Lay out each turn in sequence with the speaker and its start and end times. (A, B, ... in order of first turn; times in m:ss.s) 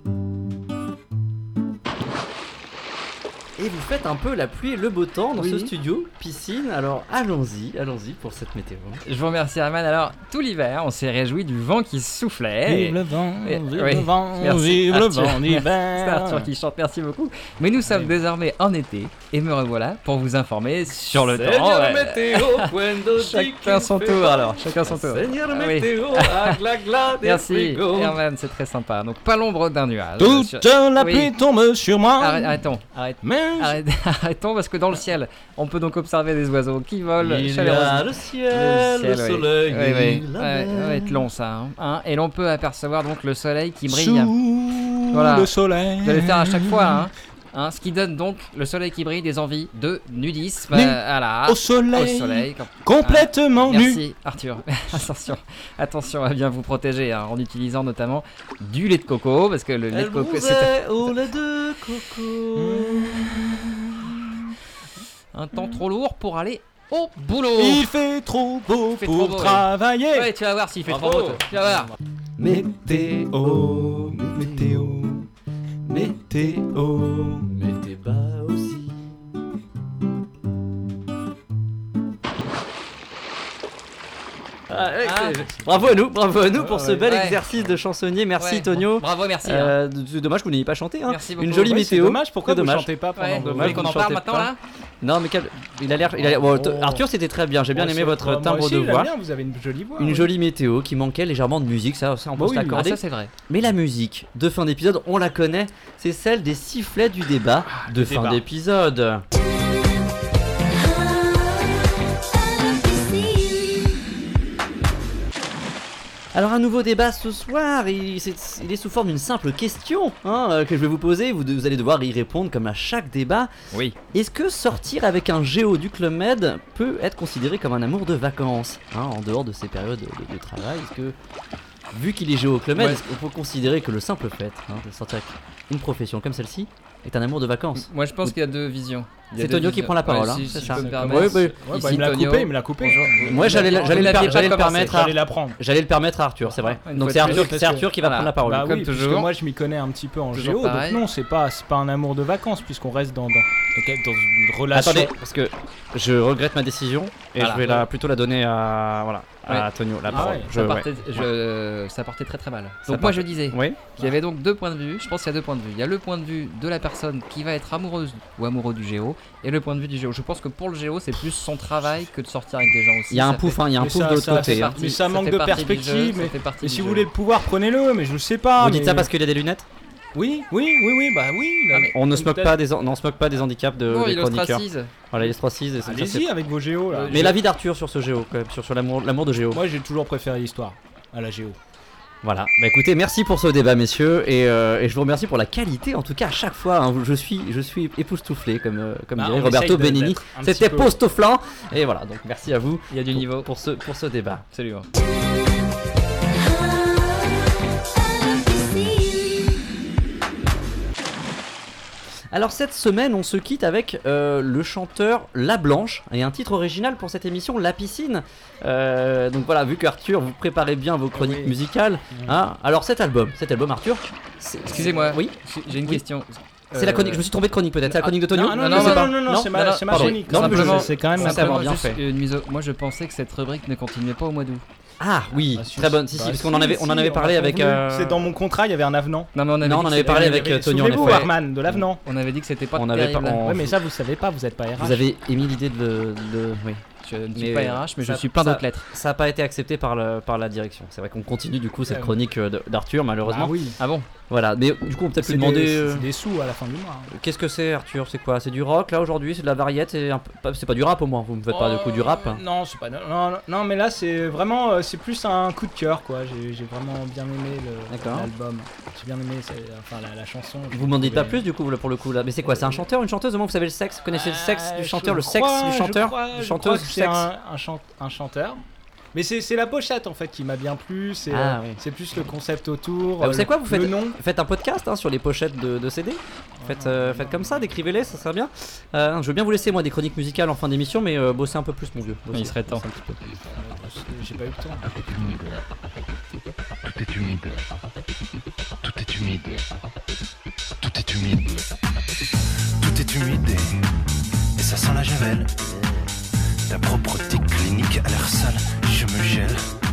0:03.6-0:09.0 A
0:05.3-0:05.7 B
0:09.0-0:26.6 C
0:12.6-0:16.5 B
0:17.9-0:18.2 B
0:21.1-0:28.2 A
0:27.2-0:31.3 C
0:30.2-0:32.6 B
0:32.2-0:44.3 C
0:33.2-0:33.8 B
0:37.2-0:41.2 A
0:43.9-0:47.1 B
0:45.1-0:45.5 C
0:46.0-1:01.2 C
0:50.7-0:54.0 B
0:59.9-1:03.4 A
1:02.6-1:04.1 B
1:05.3-1:07.9 C
1:07.5-1:10.3 B
1:08.9-1:11.9 C
1:10.8-1:11.4 A
1:12.4-1:15.2 A
1:12.4-1:12.8 B
1:13.4-1:14.0 B
1:15.9-1:19.0 A
1:16.2-1:17.1 B
1:24.7-1:39.1 A
1:25.0-1:25.5 C
1:26.5-1:27.4 C
1:28.4-1:29.8 C
1:31.0-1:31.7 C
1:31.6-1:34.0 B
1:33.2-1:34.6 C
1:36.1-1:37.0 B
1:37.7-1:40.3 B
1:40.0-1:49.2 A
1:42.4-1:42.8 B
1:42.7-1:43.3 C
1:47.7-1:48.4 B
1:56.3-2:03.5 A
2:03.7-2:04.0 C
2:04.1-2:11.2 A
2:11.9-2:18.4 A
2:12.7-2:13.0 C
2:17.7-2:25.1 C
2:19.3-2:21.9 A
2:20.2-2:25.6 B
2:23.3-2:28.7 A
2:26.5-2:29.3 C
2:27.2-2:27.9 B
2:28.4-2:35.1 B
2:30.3-2:31.0 C
2:34.7-2:41.3 A
2:37.4-2:37.9 C
2:39.5-2:57.1 C
2:40.1-2:40.5 B
2:42.8-2:43.8 A
2:53.1-2:54.8 A
2:53.8-2:59.1 B
2:58.6-2:59.7 A
3:00.1-3:02.6 B
3:01.9-3:06.3 A
3:03.9-3:04.9 C
3:05.8-3:07.4 B
3:06.9-3:07.4 C
3:07.1-3:09.6 A
3:09.5-3:11.6 B
3:12.2-3:24.4 A
3:19.2-3:21.0 B
3:22.9-3:23.5 C
3:24.5-3:24.9 C
3:32.3-3:46.0 A
3:41.1-3:41.5 B
3:44.6-3:46.9 C
3:46.7-3:52.0 A
3:46.8-3:47.2 B
3:47.8-3:51.8 B
3:48.5-3:54.6 C
3:55.0-3:58.3 A
3:55.5-3:59.3 B
3:59.3-4:03.5 C
3:59.6-4:01.3 A
4:00.0-4:02.0 B
4:02.7-4:03.7 A
4:03.4-4:05.0 B
4:04.8-4:13.6 A
4:07.0-4:08.9 C
4:11.8-4:12.2 B
4:13.2-4:13.8 B
4:13.8-4:14.1 C
4:14.3-4:16.1 A
4:15.2-4:17.1 B
4:17.1-4:22.4 A
4:21.5-4:31.4 B
4:27.9-4:28.3 A
4:30.7-4:37.3 A
4:32.5-4:32.8 B
4:34.1-4:38.6 B
4:39.1-4:44.2 B
4:41.3-4:41.8 A
4:43.2-4:52.6 A
4:46.6-4:47.8 B
4:52.3-4:52.8 C
4:52.6-4:55.0 B
4:55.0-4:55.5 D
4:56.9-4:57.5 D
4:58.8-4:59.6 D
5:00.8-5:01.6 D
5:02.8-5:03.7 D
5:04.6-5:05.6 D
5:06.7-5:09.6 D